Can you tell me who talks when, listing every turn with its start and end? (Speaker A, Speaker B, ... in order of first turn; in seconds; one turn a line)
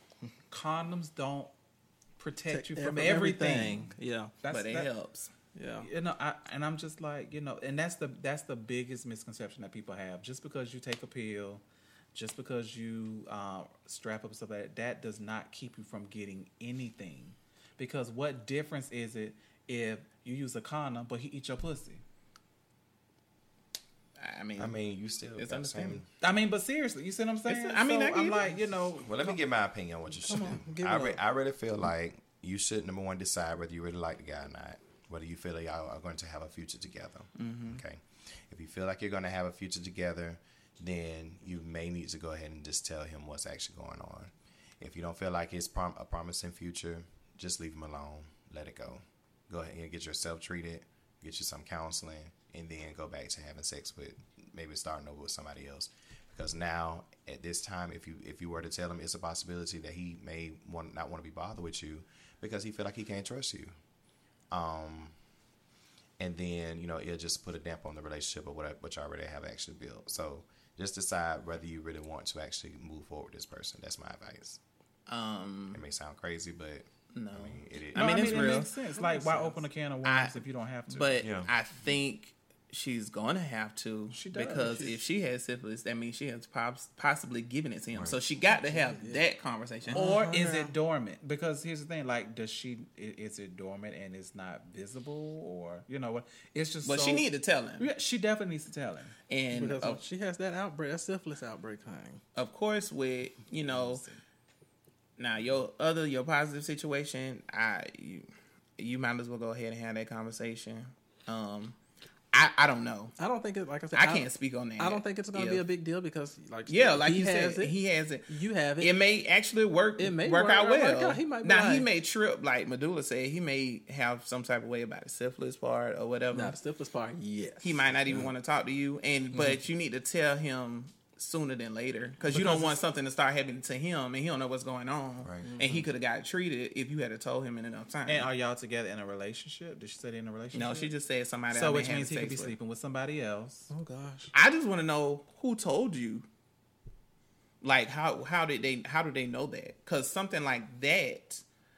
Speaker A: 0.5-1.5
Speaker A: 2.2-3.8
Speaker B: 2.5-4.3
Speaker A: 4.4-4.9
Speaker C: 4.5-5.3
Speaker B: 5.5-5.9
Speaker A: 5.8-11.6
Speaker A: 12.1-22.0
Speaker C: 24.2-24.8
Speaker D: 24.6-26.1
Speaker C: 25.4-26.0
Speaker A: 26.2-29.4
Speaker C: 27.4-28.6
Speaker D: 29.0-63.7
Speaker B: 30.2-31.2
Speaker C: 37.4-37.8
Speaker D: 64.5-65.1
Speaker D: 66.2-74.6
Speaker C: 75.1-75.8
Speaker D: 75.7-78.3
Speaker C: 77.1-78.8
Speaker A: 77.9-81.2
Speaker B: 79.0-79.6
Speaker C: 80.0-90.2
Speaker D: 81.2-81.5
Speaker A: 84.1-85.0
Speaker B: 88.7-89.2
Speaker B: 89.9-90.7
Speaker A: 89.9-97.3
Speaker C: 96.8-97.9
Speaker A: 97.8-99.1
Speaker C: 99.3-100.0
Speaker B: 99.5-102.2
Speaker C: 102.3-104.0
Speaker A: 103.6-104.2
Speaker C: 105.2-108.3
Speaker C: 108.8-111.8
Speaker C: 112.3-113.1
Speaker B: 113.2-117.7
Speaker C: 113.9-115.6
Speaker C: 116.7-118.3
Speaker B: 118.3-118.9
Speaker C: 118.8-126.5
Speaker B: 120.0-121.9
Speaker B: 126.3-128.3
Speaker C: 127.6-138.3
Speaker A: 132.3-132.8
Speaker D: 135.2-135.5
Speaker B: 135.4-135.9
Speaker A: 138.1-140.9
Speaker C: 140.5-142.5
Speaker A: 141.5-143.7
Speaker B: 143.7-144.3
Speaker C: 144.3-146.2
Speaker C: 147.6-151.4